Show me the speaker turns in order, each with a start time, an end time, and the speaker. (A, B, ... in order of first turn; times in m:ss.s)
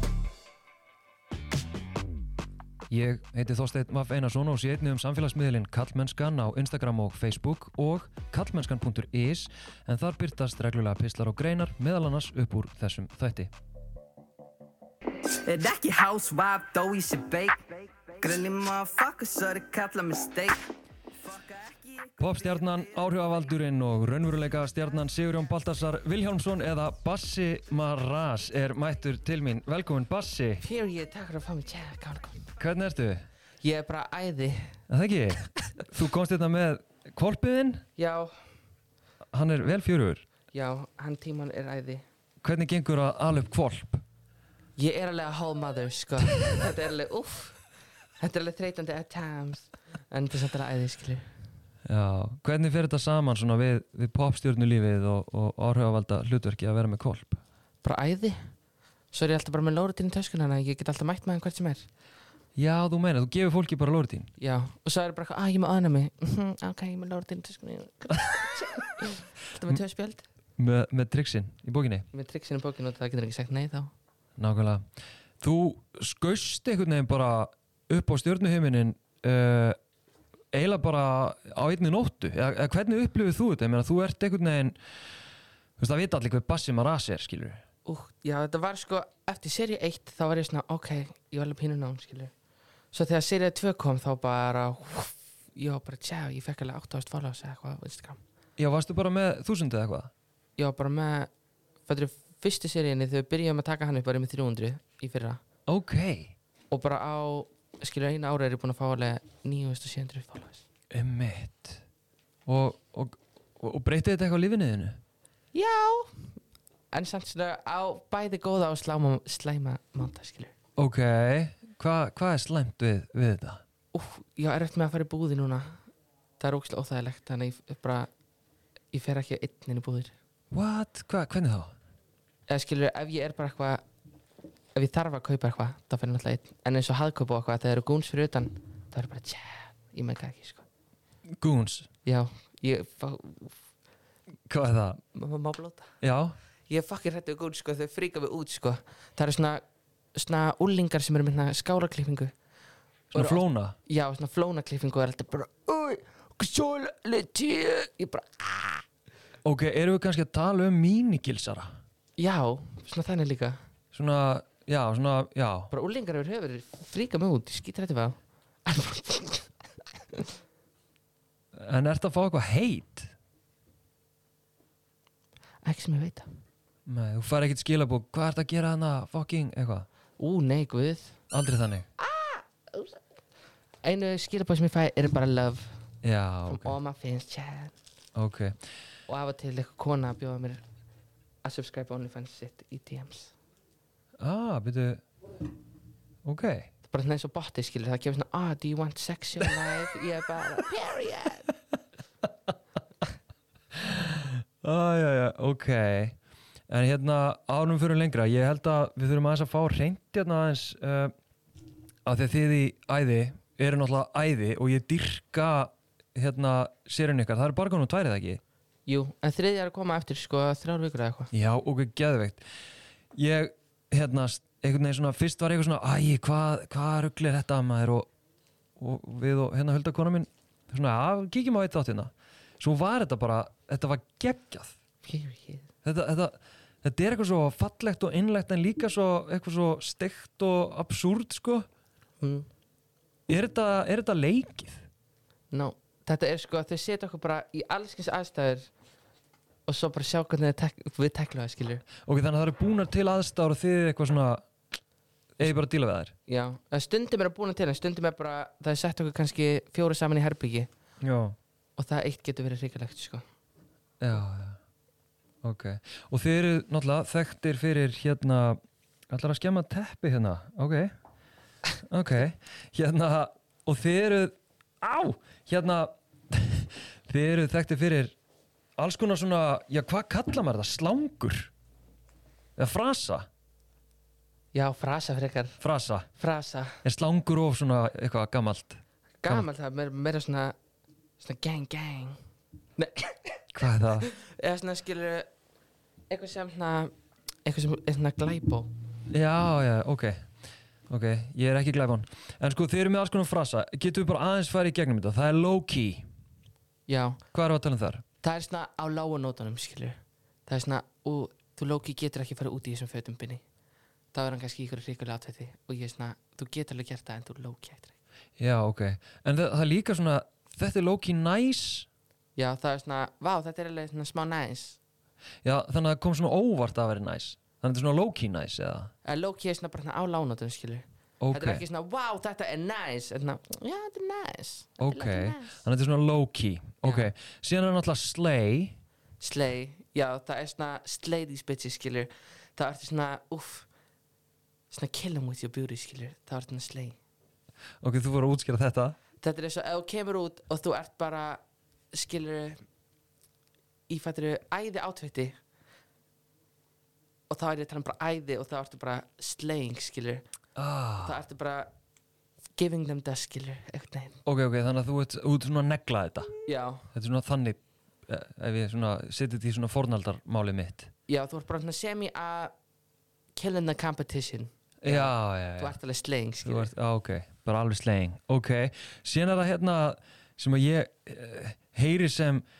0:02.9-0:13.5 A
0:15.4-0:20.6 B
0:15.8-0:16.1 C
0:21.3-0:22.2 B
0:22.2-0:30.6 A
0:30.6-0:32.6 C
0:32.6-0:33.2 A
0:33.6-0:34.8 C
0:34.9-0:37.8 A
0:38.0-0:38.4 C
0:39.3-0:40.2 A
0:40.5-0:42.0 C
0:42.4-0:44.0 A
0:44.8-0:47.6 C
0:48.2-0:51.3 C
0:51.9-0:57.4 A
0:57.8-0:58.4 C
0:59.1-1:01.9 C
1:02.6-1:04.3 A
1:04.4-1:10.3 C
1:10.6-1:12.1 A
1:12.1-1:13.9 C
1:14.4-1:14.8 A
1:15.4-1:19.8 A
1:20.5-1:24.8 A
1:25.8-1:27.6 A
1:27.9-1:32.3 C
1:32.9-1:38.2 C
1:38.6-1:40.1 A
1:40.6-1:41.3 C
1:41.9-1:45.4 C
1:45.7-1:46.3 A
1:46.7-1:50.7 C
1:50.9-1:51.8 A
1:52.4-1:55.0 A
1:55.5-1:56.4 C
1:56.9-2:00.5 C
2:00.8-2:03.6 A
2:03.9-2:05.8 C
2:06.4-2:08.1 C
2:08.9-2:10.1 C
2:10.5-2:11.7 A
2:12.5-2:13.8 C
2:14.7-2:20.7 C
2:21.4-2:21.9 A
2:22.0-2:23.6 C
2:24.5-2:25.0 A
2:25.1-2:25.9 C
2:26.0-2:26.4 A
2:26.7-2:29.6 C
2:30.1-2:32.3 C
2:33.1-2:33.8 A
2:33.1-2:38.8 C
2:39.4-2:41.7 A
2:42.2-2:43.6 C
2:43.9-2:45.7 A
2:45.7-2:50.3 C
2:51.5-2:53.1 A
2:55.6-2:56.3 C
2:56.8-2:59.9 A
3:00.2-3:01.2 C
3:01.3-3:01.9 A
3:02.0-3:03.0 C
3:03.8-3:05.8 C
3:06.0-3:06.8 A
3:06.5-3:07.7 C
3:08.1-3:08.5 A
3:09.1-3:10.6 C
3:11.4-3:13.3 C
3:14.2-3:15.0 A
3:16.2-3:16.7 A
3:16.9-3:21.5 C
3:23.7-3:26.2 A
3:26.7-3:31.1 A
3:32.0-3:38.4 A
3:38.9-3:41.3 C
3:41.3-3:42.4 A
3:43.1-3:48.1 A
3:48.8-3:54.8 A
3:55.0-3:55.7 C
3:55.8-4:01.6 A
4:02.2-4:02.5 C
4:03.3-4:04.8 A
4:05.5-4:08.7 C
4:09.7-4:11.8 C
4:12.0-4:14.4 A
4:15.4-4:16.1 A
4:16.3-4:20.7 C
4:21.0-4:21.4 A
4:21.8-4:23.2 C
4:24.0-4:24.6 A
4:25.4-4:30.9 A
4:31.8-4:38.1 A
4:38.8-4:41.5 A
4:42.6-4:43.3 A
4:44.5-4:45.6 C
4:45.6-4:46.1 A
4:46.2-4:46.8 C
4:46.8-4:49.5 A
4:49.2-4:50.6 C
4:51.2-4:52.2 C
4:52.8-4:53.4 C
4:53.5-4:54.1 A
4:54.0-4:55.3 C
4:56.1-4:56.9 C
4:57.4-4:58.7 C
4:59.1-5:00.3 A
5:00.9-5:06.1 A
5:06.9-5:07.2 C
5:07.3-5:08.0 A
5:08.2-5:13.4 C
5:14.1-5:18.0 C
5:18.4-5:21.9 A
5:22.4-5:24.8 C
5:25.4-5:28.9 A
5:29.0-5:35.6 C
5:31.2-5:31.6 A
5:34.8-5:38.8 A
5:36.8-5:37.1 C
5:39.2-5:43.7 C
5:44.7-5:47.0 C
5:47.8-5:49.0 A
5:49.2-5:51.4 C
5:51.9-5:52.6 C
5:53.9-5:55.4 C
5:57.3-6:00.2 C
6:00.6-6:01.2 A
6:01.0-6:01.7 C
6:02.6-6:04.2 C
6:04.2-6:06.3 A
6:06.4-6:06.9 C
6:06.9-6:10.9 A
6:11.1-6:12.5 C
6:13.4-6:16.7 C
6:14.8-6:15.8 A
6:16.4-6:22.4 A